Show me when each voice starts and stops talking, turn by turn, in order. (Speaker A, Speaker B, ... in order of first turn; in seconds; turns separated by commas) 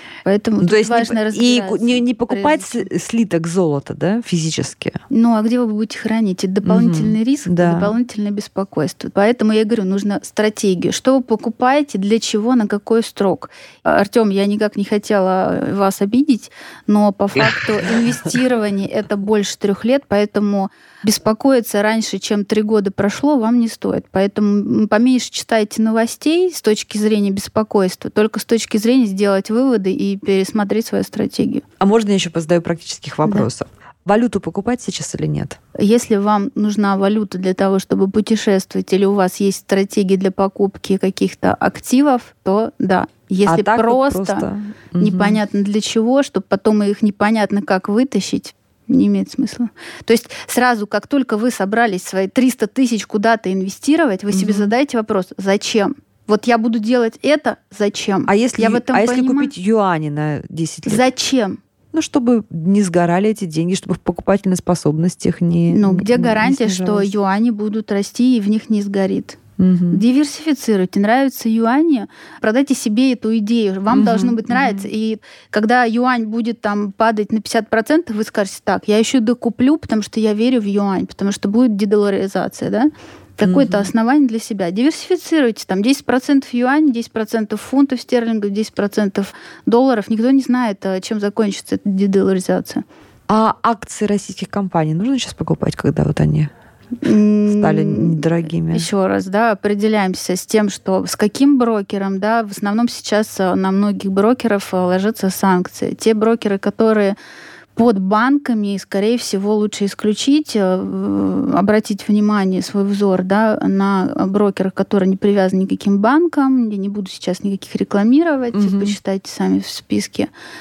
Speaker A: 0.2-2.9, Speaker B: 0.6-5.0, Speaker A: 5.1-31.6, Speaker B: 6.6-7.9, Speaker B: 31.8-35.6, Speaker A: 35.8-44.5, Speaker B: 43.5-45.4, Speaker A: 45.0-59.5, Speaker B: 54.3-54.7, Speaker B: 58.3-61.0, Speaker A: 60.9-61.6, Speaker B: 61.9-67.1, Speaker A: 65.7-69.4, Speaker B: 69.6-70.0, Speaker A: 69.9-92.8, Speaker B: 73.9-74.9, Speaker B: 83.4-83.9, Speaker B: 93.3-96.5, Speaker A: 97.0-107.2, Speaker B: 97.5-98.9, Speaker A: 107.8-120.3, Speaker B: 118.5-119.0